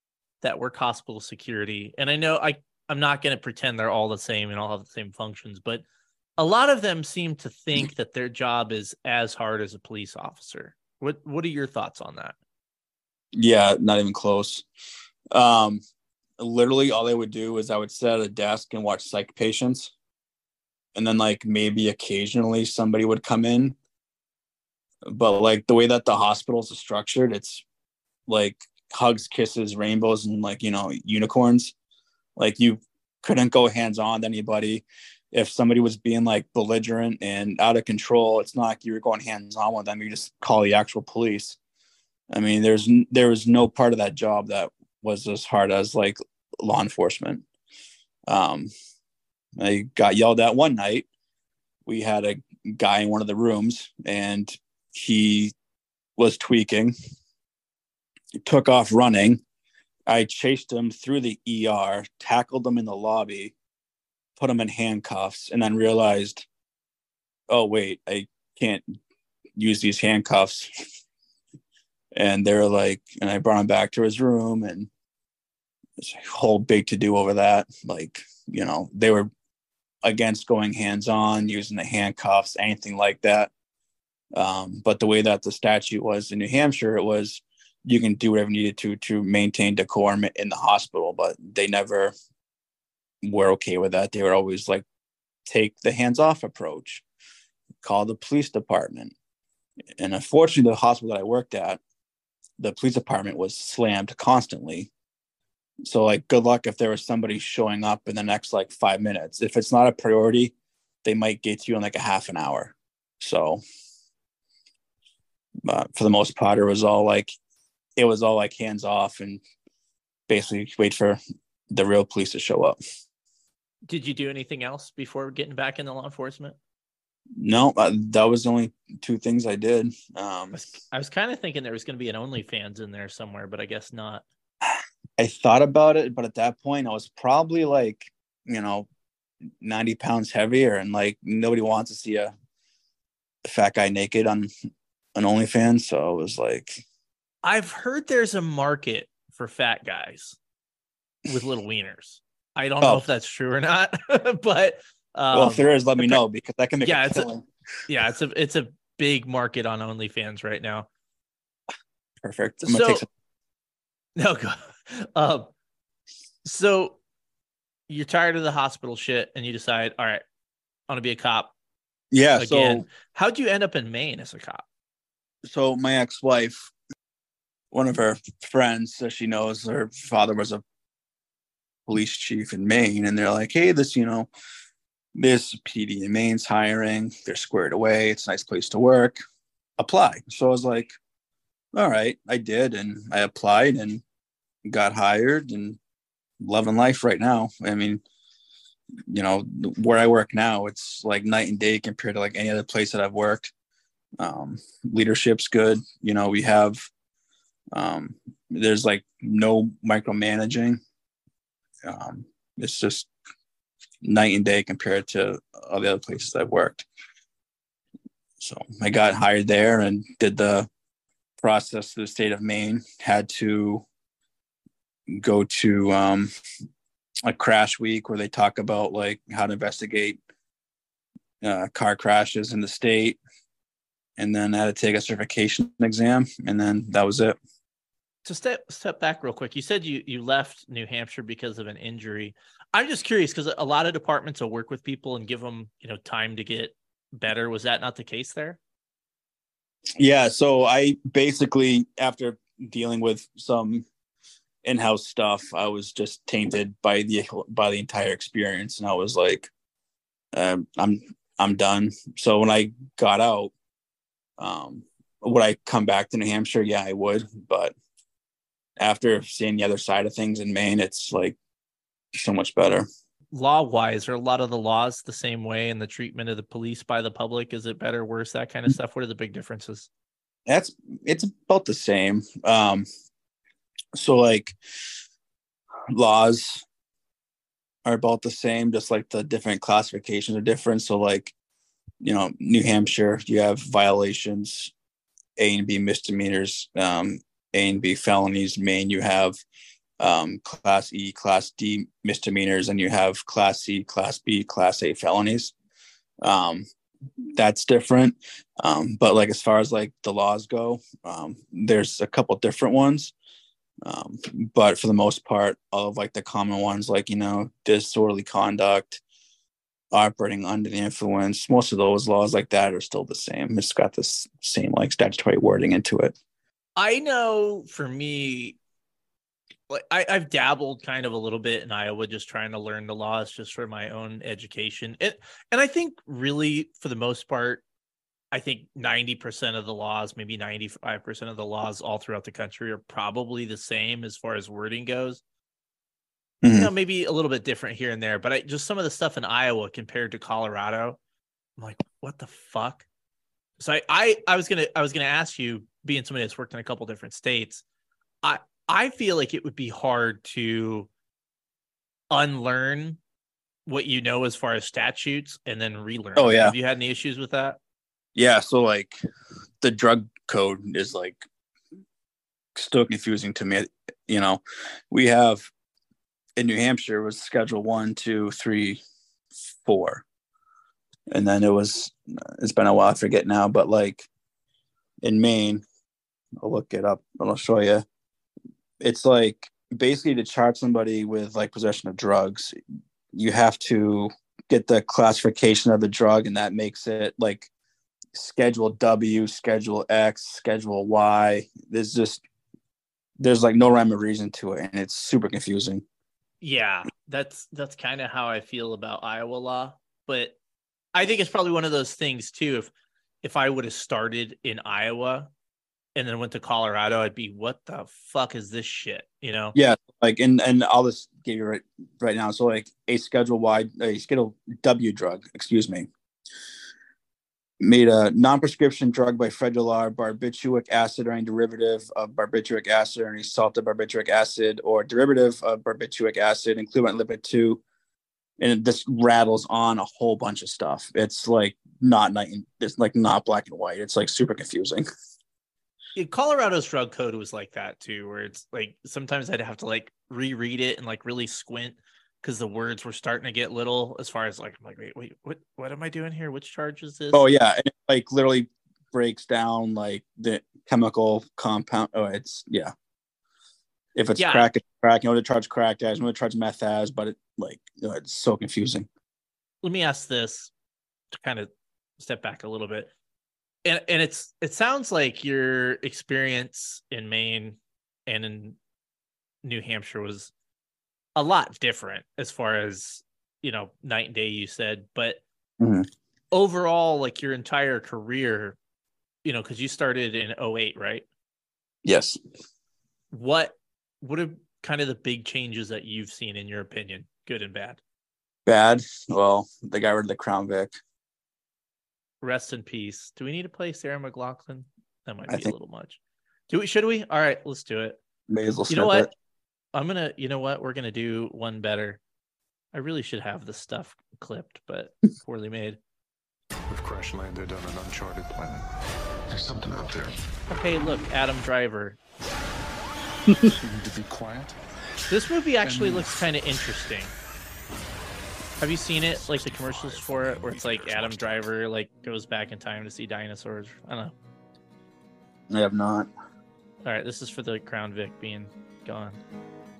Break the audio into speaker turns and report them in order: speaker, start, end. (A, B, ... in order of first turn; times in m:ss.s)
0:00.4-0:05.8 A
0:06.4-0:12.3 A
0:13.3-0:14.6 B
0:15.3-0:15.8 B
0:16.4-0:19.9 B
0:20.9-0:23.8 B
0:25.1-0:27.6 B
0:28.3-0:31.7 B
0:32.4-0:41.6 B
0:42.3-0:47.4 B
0:48.3-0:48.7 B
0:49.6-0:51.1 B
0:51.8-0:55.5 B
0:56.2-0:56.9 B
0:58.4-0:59.4 B
1:00.1-1:03.5 B
1:04.4-1:06.4 B
1:07.5-1:09.0 B
1:09.6-1:10.7 B
1:12.1-1:14.9 B
1:16.0-1:19.3 B
1:20.0-1:23.5 B
1:24.4-1:32.1 B
1:33.2-1:34.8 B
1:35.4-1:37.0 B
1:37.8-1:39.1 B
1:40.0-1:41.8 B
1:42.6-1:44.9 B
1:45.8-1:50.5 B
1:51.0-1:53.6 B
1:55.6-1:57.3 B
1:58.0-1:59.4 B
2:00.3-2:01.2 B
2:01.7-2:02.8 B
2:03.8-2:06.6 A
2:07.4-2:10.6 B
2:10.5-2:14.2 A
2:14.7-2:18.9 B
2:19.6-2:22.3 B
2:23.4-2:24.5 B
2:25.2-2:26.8 B
2:27.4-2:30.4 A
2:31.2-2:36.2 A
2:35.3-2:37.4 B
2:36.8-2:37.2 A
2:37.9-2:40.9 A
2:42.2-2:43.1 B
2:42.6-2:43.0 A
2:44.2-2:45.5 A
2:46.4-2:47.0 A
2:47.9-2:50.2 A
2:50.9-2:51.5 A
2:52.1-2:52.8 B
2:52.4-2:54.6 A
2:55.4-2:56.7 B
2:57.7-3:00.6 B
3:01.9-3:04.3 B
3:05.2-3:09.2 B
3:09.8-3:10.9 B
3:11.7-3:14.0 B
3:14.6-3:15.8 B
3:16.4-3:18.0 B
3:19.1-3:23.5 B
3:24.2-3:26.9 B
3:27.7-3:30.8 B
3:31.8-3:33.1 B
3:34.0-3:36.8 B
3:38.4-3:40.7 B
3:41.4-3:43.8 B
3:45.1-3:46.3 B
3:47.2-3:50.2 B
3:51.4-3:53.2 B
3:54.2-3:57.4 B
3:58.2-4:08.6 A
4:10.0-4:13.8 B
4:14.6-4:19.5 B
4:20.3-4:23.5 B
4:24.4-4:27.7 B
4:28.8-4:31.4 B
4:32.1-4:32.9 B
4:33.3-4:39.9 A
4:40.5-4:42.8 B
4:43.9-4:44.6 B
4:45.9-4:46.6 B
4:47.8-4:51.3 B
4:52.0-4:54.7 B
4:55.4-4:59.4 B
5:00.0-5:05.5 B
5:06.2-5:06.6 B
5:07.3-5:13.1 B
5:13.8-5:19.0 B
5:19.9-5:26.1 B
5:26.8-5:28.6 A
5:29.7-5:37.6 A
5:38.3-5:45.2 A
5:46.4-5:46.7 B
5:46.5-5:51.0 A
5:51.6-5:52.8 A
5:53.6-5:57.6 A
5:58.2-6:00.9 A
6:02.1-6:03.0 A
6:03.6-6:07.6 A
6:06.2-6:06.6 B
6:08.2-6:09.0 B
6:09.6-6:11.2 B
6:12.5-6:15.5 B
6:16.4-6:18.8 B
6:19.6-6:20.0 B
6:21.1-6:24.1 B
6:25.0-6:25.6 B
6:26.4-6:27.8 B
6:28.8-6:32.5 B
6:33.1-6:37.5 B
6:38.1-6:42.2 B
6:43.2-6:45.8 B
6:46.4-6:50.4 A
6:50.9-6:52.7 A
6:53.2-6:55.3 A
6:55.9-6:59.6 A
6:59.6-7:05.9 B
7:07.6-7:17.6 B
7:18.4-7:24.8 B
7:25.9-7:37.2 A
7:37.1-7:42.7 B
7:43.9-7:48.9 B
7:44.2-7:44.5 A
7:49.6-7:50.5 A
7:51.1-7:51.5 A
7:52.0-7:52.9 A
7:53.6-7:58.6 A
7:59.4-8:00.3 A
8:01.2-8:05.2 A
8:05.6-8:05.9 B
8:06.3-8:08.6 A
8:09.2-8:11.0 A
8:11.8-8:12.2 B
8:13.1-8:17.8 A
8:18.4-8:20.7 B
8:22.2-8:28.0 A
8:25.3-8:25.5 B
8:28.3-8:29.1 B
8:28.7-8:29.1 A
8:29.7-8:32.0 A
8:32.7-8:35.8 A
8:36.7-8:38.7 C
8:39.3-8:40.2 C
8:40.5-8:42.0 A
8:43.5-8:44.6 C
8:45.1-8:47.1 A
8:45.6-8:46.1 C
8:48.6-8:54.1 A
8:49.2-8:51.5 C
8:55.5-8:56.1 B
8:56.8-8:59.2 A